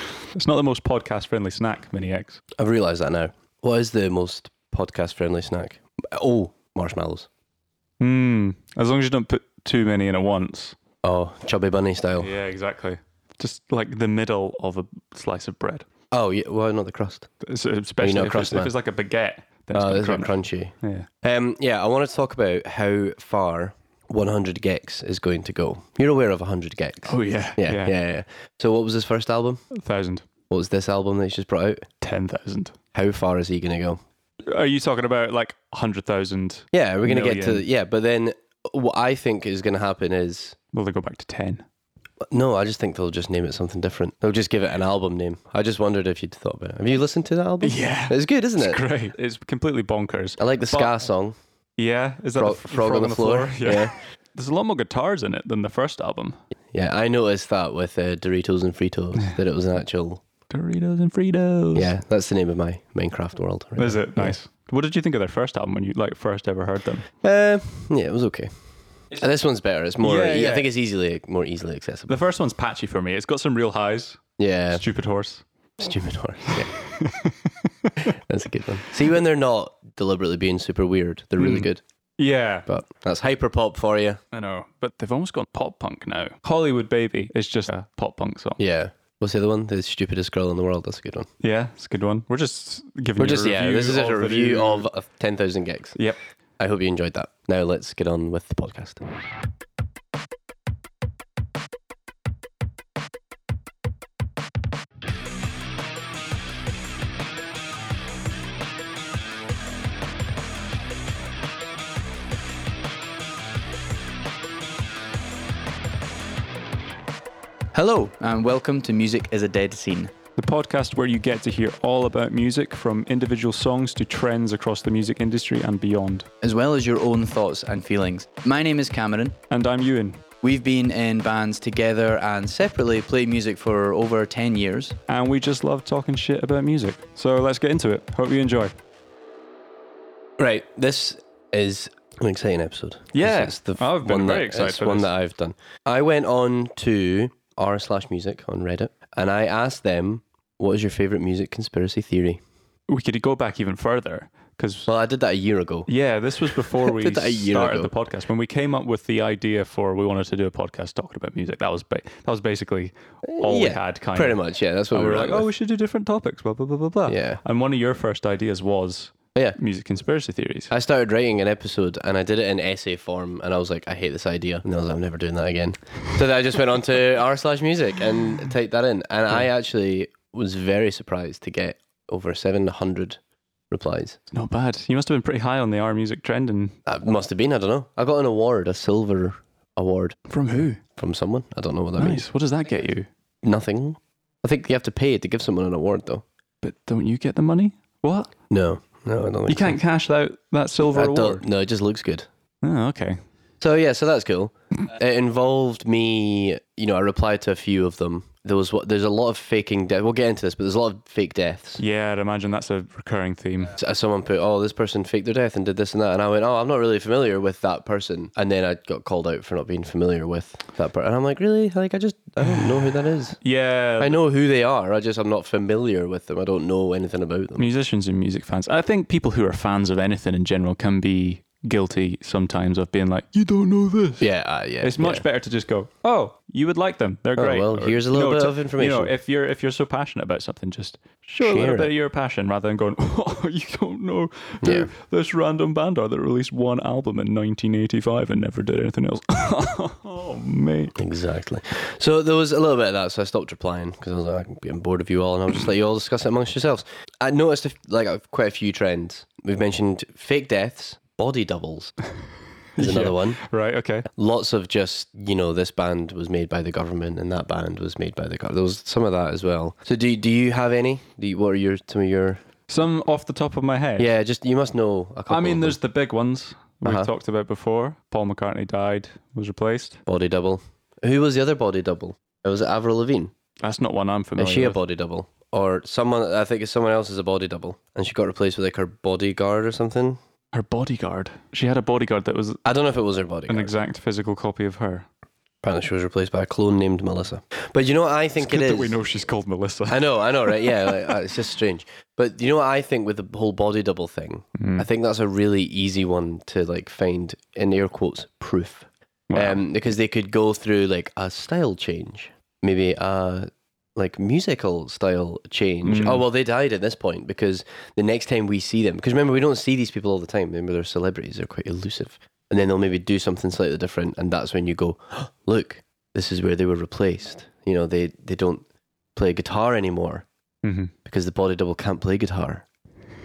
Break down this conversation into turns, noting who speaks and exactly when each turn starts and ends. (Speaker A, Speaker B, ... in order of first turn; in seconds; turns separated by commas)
Speaker A: 0.3-2.4, Speaker B: 2.6-7.3, Speaker A: 8.0-10.8, Speaker B: 11.0-12.3, Speaker A: 12.2-15.8, Speaker B: 16.1-17.3, Speaker A: 17.4-21.1, Speaker B: 18.0-18.7, Speaker B: 19.7-29.6, Speaker A: 27.1-27.9, Speaker A: 29.7-30.2, Speaker B: 30.5-31.9, Speaker A: 32.0-32.8, Speaker B: 32.9-34.0, Speaker A: 34.5-37.6, Speaker B: 36.7-40.5, Speaker A: 40.7-41.6, Speaker B: 42.3-48.8, Speaker A: 47.6-51.0, Speaker B: 50.4-51.4, Speaker A: 51.8-56.4, Speaker B: 52.4-53.9, Speaker B: 56.7-60.2, Speaker A: 60.5-61.9, Speaker B: 61.7-64.3, Speaker A: 63.8-67.1, Speaker B: 67.2-68.5, Speaker B: 69.1-72.2, Speaker A: 70.0-70.7, Speaker A: 72.1-75.4, Speaker B: 74.4-74.8, Speaker B: 75.8-76.7, Speaker A: 76.5-77.3, Speaker B: 78.0-81.8, Speaker A: 81.4-82.7, Speaker B: 82.7-84.2, Speaker A: 84.3-88.6, Speaker B: 88.6-91.3, Speaker A: 91.4-94.8, Speaker B: 93.2-96.0, Speaker B: 96.6-99.0, Speaker C: 117.7-120.1, Speaker A: 120.4-126.3, Speaker C: 126.4-129.3, Speaker A: 129.5-130.2, Speaker C: 130.4-135.0, Speaker A: 135.1-138.7, Speaker B: 140.4-152.4, Speaker A: 143.1-145.1, Speaker A: 152.9-154.9, Speaker B: 154.9-155.9, Speaker A: 155.9-164.4, Speaker B: 156.8-157.9, Speaker B: 163.3-165.4, Speaker A: 164.9-170.7, Speaker B: 167.1-167.4, Speaker B: 170.7-183.2, Speaker B: 183.7-184.2, Speaker A: 184.3-186.8, Speaker B: 186.8-190.2, Speaker A: 190.3-190.8, Speaker B: 191.0-192.3, Speaker A: 192.0-193.1, Speaker B: 193.4-196.2, Speaker A: 196.6-198.3, Speaker B: 198.5-199.8, Speaker A: 199.5-201.4, Speaker B: 200.9-202.3, Speaker A: 202.6-203.2, Speaker B: 203.6-211.8, Speaker A: 211.8-213.7, Speaker B: 213.8-223.4, Speaker A: 222.4-224.2, Speaker B: 224.0-227.7, Speaker A: 227.6-234.3, Speaker B: 234.2-235.2, Speaker A: 234.8-250.9, Speaker B: 237.3-239.1, Speaker B: 241.4-241.9, Speaker B: 244.6-244.9, Speaker B: 250.9-261.9, Speaker A: 262.8-264.1, Speaker B: 262.8-263.4, Speaker B: 264.1-272.4, Speaker A: 272.7-274.1, Speaker B: 274.0-275.8, Speaker A: 275.3-280.0, Speaker B: 276.8-277.1, Speaker B: 280.1-283.3, Speaker A: 283.6-284.8, Speaker B: 284.4-290.2, Speaker A: 290.5-292.6, Speaker B: 292.6-293.7, Speaker A: 293.5-295.1, Speaker B: 295.6-298.9, Speaker A: 298.4-301.0, Speaker B: 299.9-328.6, Speaker A: 304.6-304.9, Speaker A: 309.3-309.6, Speaker A: 315.8-316.2, Speaker B: 329.1-330.2, Speaker A: 330.6-330.9, Speaker B: 331.0-332.6